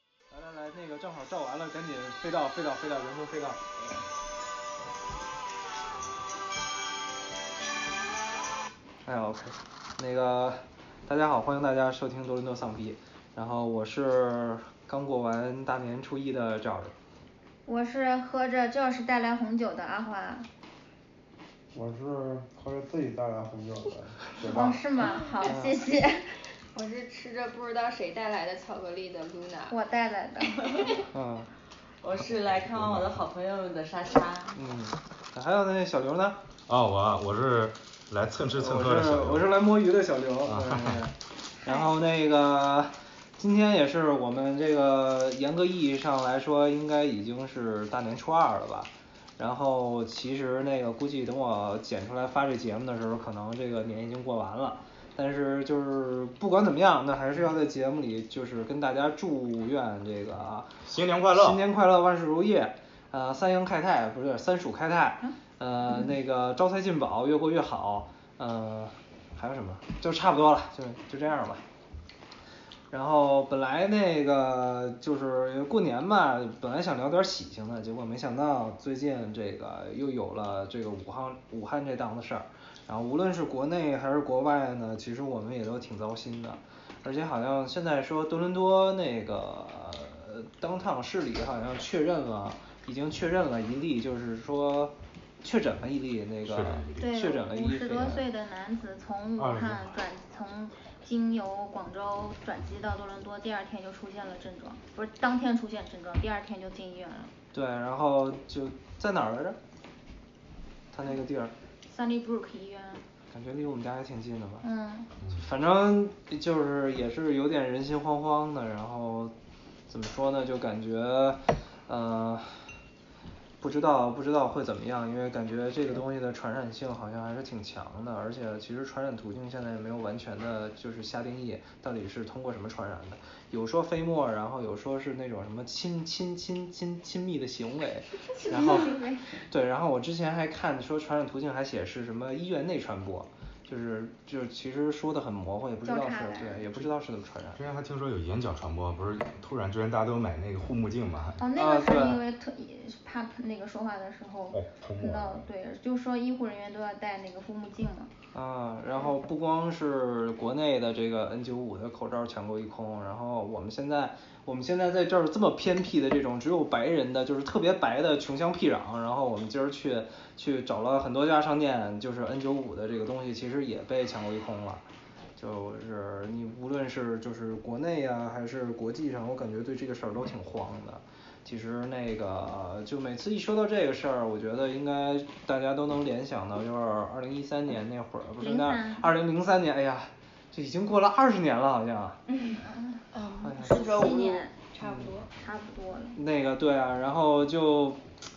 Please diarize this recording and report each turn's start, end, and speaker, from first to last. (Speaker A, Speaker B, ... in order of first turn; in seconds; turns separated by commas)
Speaker A: 0.3-3.6, Speaker A: 9.1-16.9, Speaker B: 17.7-20.5, Speaker C: 21.7-24.9, Speaker B: 24.5-26.4, Speaker A: 25.4-25.8, Speaker D: 26.7-29.8, Speaker B: 29.7-30.8, Speaker A: 31.1-31.5, Speaker E: 32.0-34.6, Speaker F: 32.2-33.2, Speaker A: 34.5-36.4, Speaker F: 36.7-39.5, Speaker A: 38.6-60.8, Speaker F: 40.5-41.0, Speaker F: 60.9-61.6, Speaker A: 61.3-71.6, Speaker A: 72.9-98.2, Speaker F: 96.5-97.2, Speaker B: 97.0-107.3, Speaker F: 99.4-99.9, Speaker A: 107.5-109.6, Speaker A: 110.9-111.5, Speaker B: 111.9-113.0, Speaker A: 113.3-114.7, Speaker B: 114.6-115.1, Speaker F: 115.2-115.5, Speaker A: 115.3-119.3, Speaker A: 119.9-122.7, Speaker A: 123.6-147.6, Speaker B: 138.4-139.3, Speaker B: 145.8-146.7, Speaker F: 147.6-151.4, Speaker B: 151.4-158.1, Speaker A: 151.6-152.2, Speaker F: 154.5-155.5, Speaker A: 158.3-174.8, Speaker A: 175.4-192.2, Speaker B: 188.4-189.1, Speaker B: 192.6-193.1, Speaker D: 193.1-195.3, Speaker A: 193.4-193.8, Speaker B: 193.6-194.6, Speaker A: 194.8-195.2, Speaker B: 195.3-196.2, Speaker A: 196.2-198.0